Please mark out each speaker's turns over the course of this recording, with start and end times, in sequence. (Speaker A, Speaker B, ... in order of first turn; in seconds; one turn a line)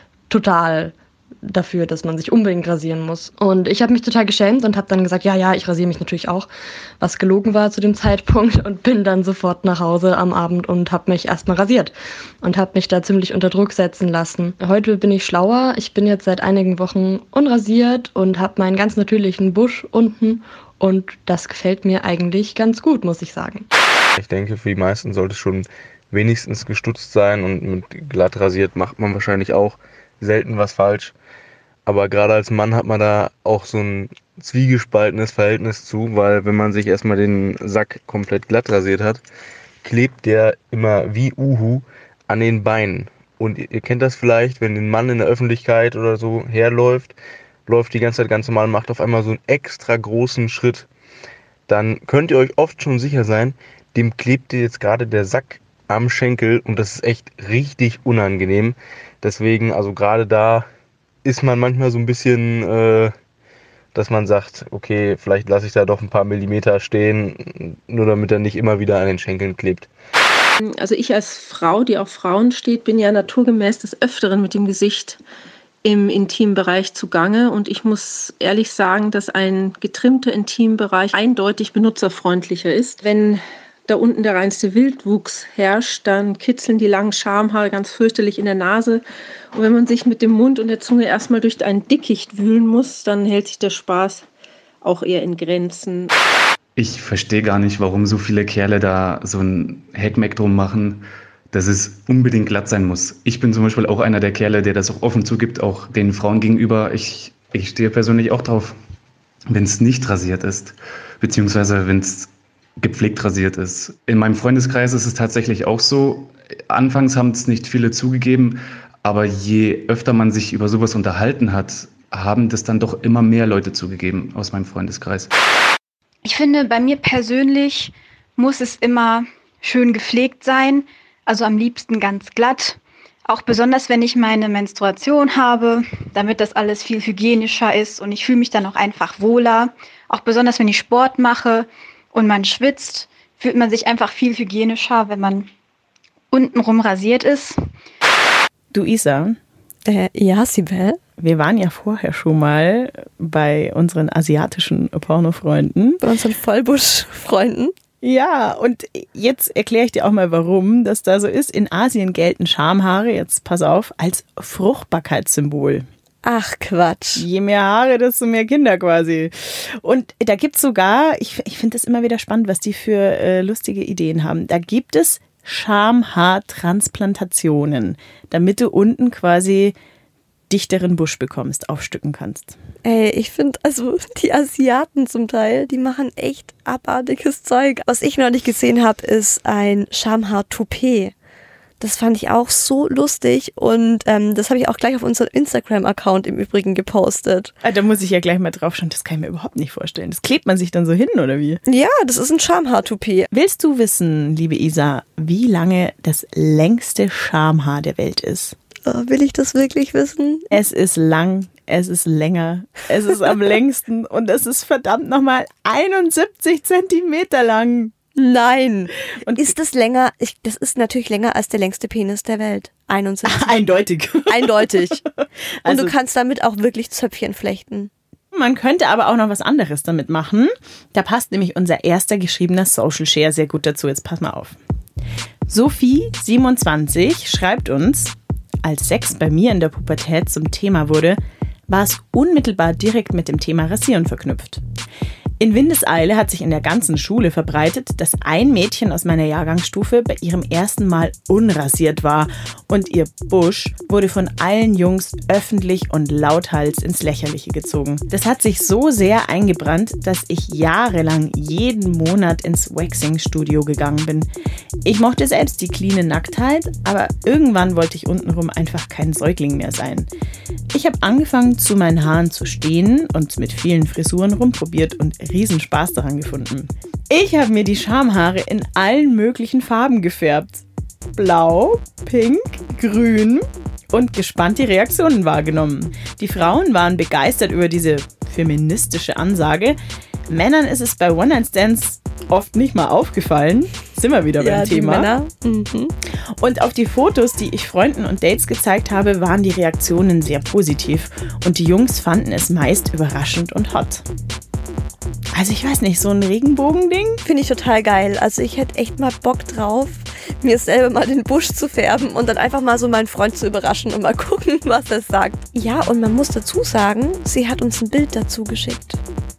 Speaker A: 0.3-6.5
Speaker A: 7.0-23.7
Speaker B: 24.2-31.1
Speaker B: 31.9-39.2
Speaker B: 39.8-47.1
Speaker B: 47.7-50.9
Speaker B: 51.7-60.7
Speaker B: 61.2-63.1
Speaker B: 64.0-69.9
Speaker C: 70.6-75.2
Speaker C: 75.8-94.2
Speaker C: 94.8-96.1
Speaker D: 96.8-108.8
Speaker D: 109.5-125.3
Speaker E: 126.2-145.5
Speaker E: 146.3-147.6
Speaker F: 148.7-149.4
Speaker G: 149.8-151.0
Speaker F: 151.2-156.0
Speaker G: 156.0-157.7
Speaker F: 158.0-165.9
Speaker G: 166.2-167.2
Speaker F: 167.2-179.8
Speaker F: 180.5-182.6
Speaker G: 182.8-191.1
Speaker G: 191.8-197.5
Speaker F: 197.6-201.6
Speaker G: 201.7-203.3
Speaker F: 203.3-208.6
Speaker G: 208.9-210.5
Speaker F: 210.5-217.9
Speaker G: 218.2-223.6
Speaker F: 219.2-219.5
Speaker F: 223.2-225.1
Speaker G: 224.3-225.0
Speaker F: 225.6-225.9
Speaker G: 225.7-227.9
Speaker F: 228.3-234.6
Speaker F: 235.5-244.6
Speaker F: 245.4-264.3
Speaker F: 264.8-270.1
Speaker F: 270.7-289.8
Speaker F: 290.3-295.1
Speaker G: 294.4-295.9
Speaker F: 296.4-304.1
Speaker F: 305.3-307.2
Speaker G: 307.2-319.0